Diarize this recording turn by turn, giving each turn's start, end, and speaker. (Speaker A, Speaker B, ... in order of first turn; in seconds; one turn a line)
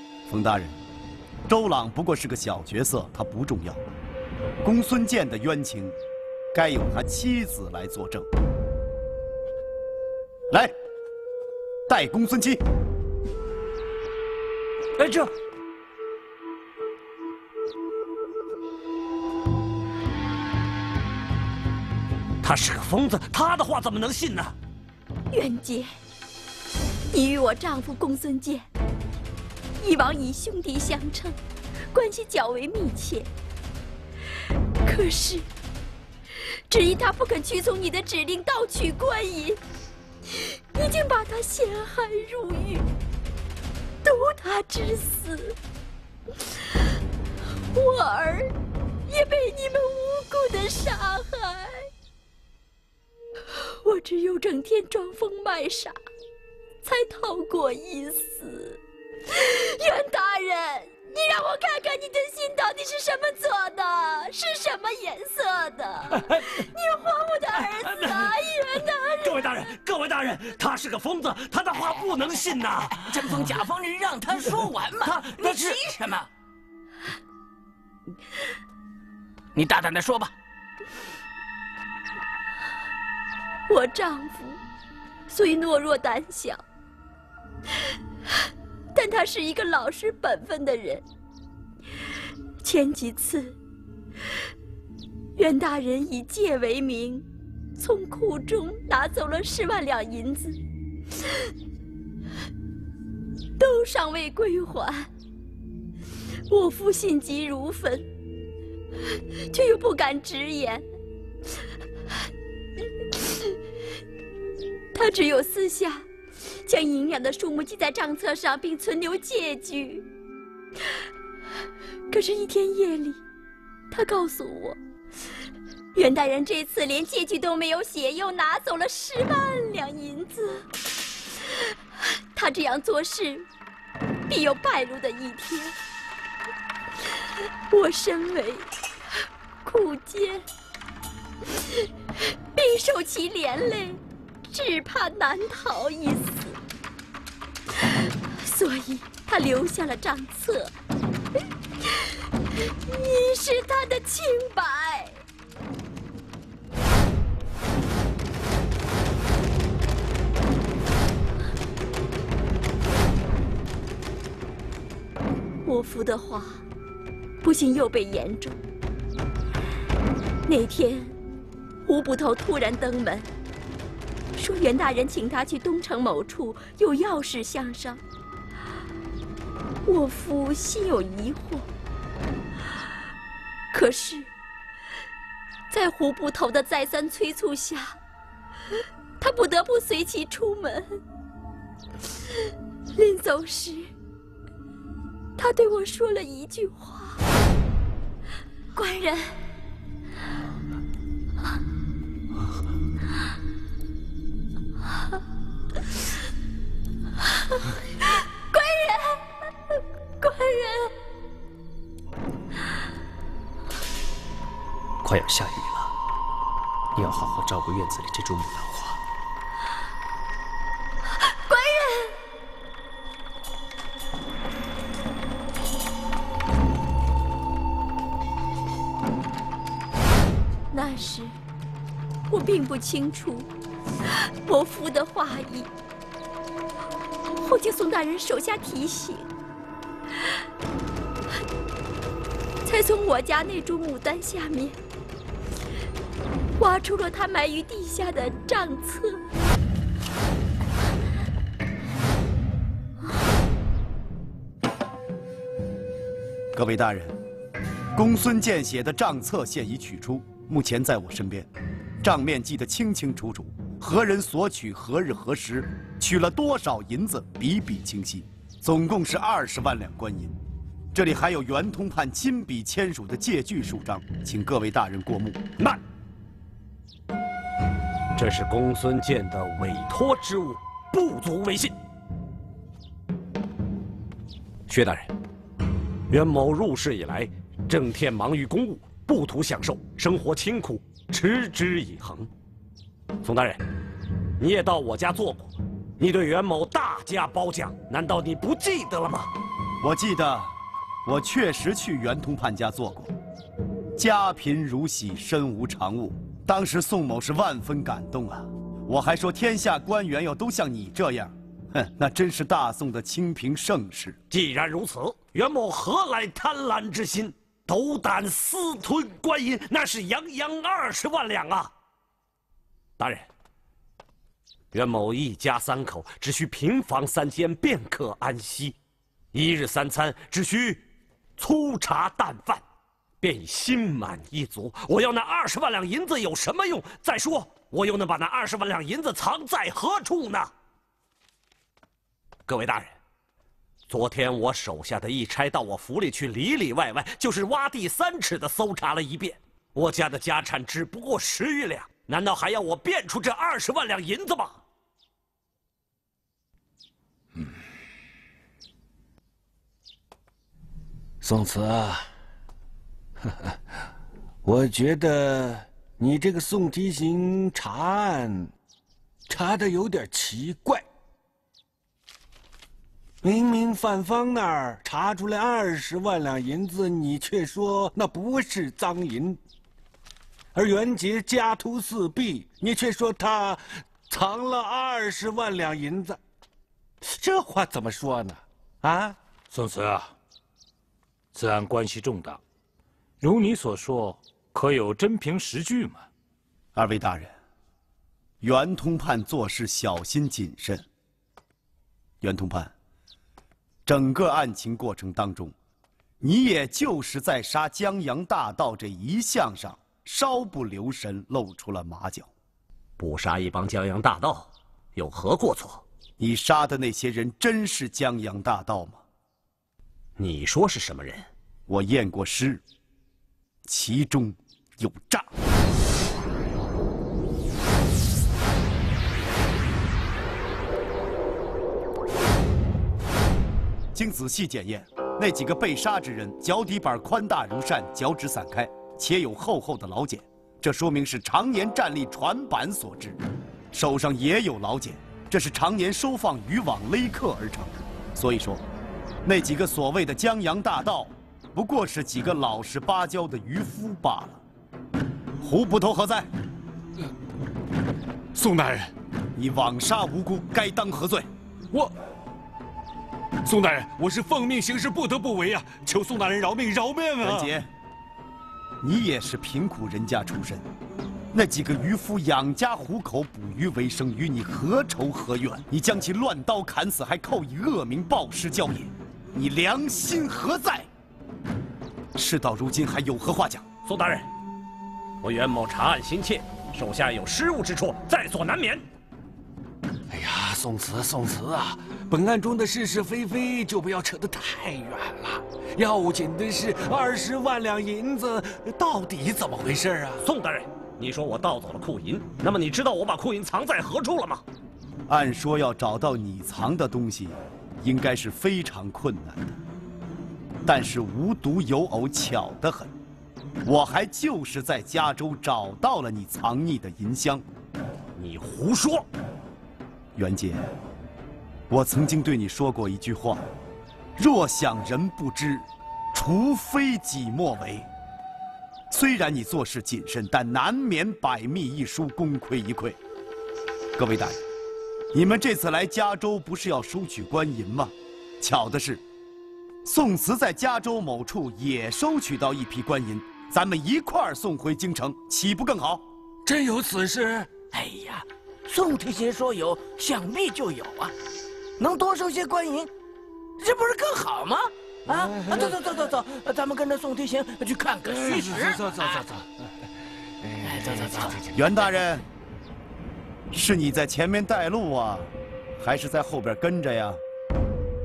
Speaker A: 0.3-0.8
Speaker A: 1.5-3.8
Speaker A: 4.6-6.0
Speaker A: 6.5-8.3
Speaker A: 11.9-12.6
Speaker B: 15.0-15.3
Speaker B: 22.4-24.6
Speaker C: 25.3-25.9
Speaker C: 27.1-28.7
Speaker C: 29.8-31.4
Speaker C: 31.9-33.3
Speaker C: 34.8-35.5
Speaker C: 36.7-39.6
Speaker C: 40.4-42.9
Speaker C: 44.0-45.6
Speaker C: 47.7-48.5
Speaker C: 49.1-51.9
Speaker C: 53.8-56.0
Speaker C: 56.8-69.5
Speaker B: 66.2-66.7
Speaker B: 67.6-73.1
Speaker D: 72.9-76.3
Speaker B: 75.0-75.8
Speaker D: 79.5-80.3
Speaker C: 83.7-84.6
Speaker C: 85.3-86.6
Speaker C: 88.9-91.0
Speaker C: 92.6-93.6
Speaker C: 95.4-100.6
Speaker C: 103.6-105.1
Speaker C: 106.5-108.1
Speaker C: 109.5-110.9
Speaker C: 113.2-113.5
Speaker C: 114.9-116.1
Speaker C: 116.6-120.1
Speaker C: 122.1-123.2
Speaker C: 123.9-124.8
Speaker C: 126.0-130.7
Speaker C: 132.3-133.5
Speaker C: 134.3-135.7
Speaker C: 137.7-138.7
Speaker C: 139.6-140.4
Speaker C: 142.6-146.6
Speaker C: 147.9-150.8
Speaker C: 151.8-155.2
Speaker C: 165.7-166.7
Speaker C: 167.4-168.6
Speaker C: 170.5-171.2
Speaker C: 171.9-173.3
Speaker C: 174.4-178.0
Speaker C: 179.8-181.7
Speaker C: 183.7-184.3
Speaker C: 185.7-188.0
Speaker C: 189.2-190.9
Speaker C: 193.0-193.9
Speaker C: 195.4-197.2
Speaker C: 198.7-199.4
Speaker C: 208.0-209.3
Speaker C: 210.2-210.9
Speaker E: 215.0-215.9
Speaker E: 217.0-219.0
Speaker C: 221.3-222.2
Speaker C: 230.7-231.4
Speaker C: 232.3-233.5
Speaker C: 234.1-235.7
Speaker C: 237.4-239.3
Speaker C: 242.6-244.8
Speaker C: 246.6-249.2
Speaker A: 256.5-257.2
Speaker A: 257.9-261.5
Speaker A: 262.0-270.4
Speaker A: 270.9-275.5
Speaker B: 278.1-281.7
Speaker B: 284.7-285.1
Speaker B: 286.1-292.3
Speaker B: 293.2-293.6
Speaker B: 294.4-299.3
Speaker A: 299.8-303.1
Speaker A: 304.0-314.2
Speaker B: 314.3-321.7
Speaker B: 323.0-323.3
Speaker B: 324.7-328.8
Speaker B: 329.3-330.9
Speaker B: 331.4-332.6
Speaker B: 333.2-340.5
Speaker B: 342.5-343.0
Speaker B: 343.9-354.6
Speaker F: 361.2-362.1
Speaker F: 363.3-363.6
Speaker F: 364.4-368.5
Speaker F: 369.3-370.9
Speaker F: 373.2-379.4
Speaker F: 380.5-386.2
Speaker F: 387.0-389.2
Speaker G: 389.5-390.1
Speaker G: 391.3-392.4
Speaker G: 393.2-396.1
Speaker A: 396.8-397.3
Speaker A: 398.4-400.9
Speaker A: 402.2-402.7
Speaker A: 403.9-405.6
Speaker A: 406.2-412.3
Speaker B: 413.0-415.8
Speaker A: 416.2-419.0
Speaker B: 420.2-421.3
Speaker A: 421.7-422.6
Speaker A: 423.6-425.3
Speaker A: 433.9-443.2
Speaker A: 443.7-448.6
Speaker A: 449.2-454.4
Speaker A: 455.4-456.3
Speaker F: 458.4-458.9
Speaker A: 459.4-461.3
Speaker F: 463.4-467.5
Speaker A: 467.2-467.7
Speaker A: 468.8-470.6
Speaker A: 471.3-480.9
Speaker A: 482.1-483.7
Speaker B: 483.9-484.3
Speaker B: 485.2-488.8
Speaker F: 490.1-500.3
Speaker B: 500.2-504.4
Speaker A: 505.1-509.6
Speaker A: 510.6-512.9
Speaker A: 513.6-517.5
Speaker B: 518.2-519.1
Speaker A: 520.1-520.7
Speaker A: 521.7-523.4
Speaker A: 524.2-527.9
Speaker A: 528.9-533.0
Speaker A: 534.0-534.4
Speaker A: 535.1-539.0
Speaker A: 539.9-546.0
Speaker F: 546.5-547.5
Speaker D: 547.7-551.1
Speaker D: 551.8-552.9
Speaker D: 553.6-559.3
Speaker F: 555.1-555.8
Speaker F: 558.2-559.5
Speaker F: 560.4-561.5
Speaker D: 560.6-561.5
Speaker A: 561.5-562.2
Speaker A: 563.5-567.2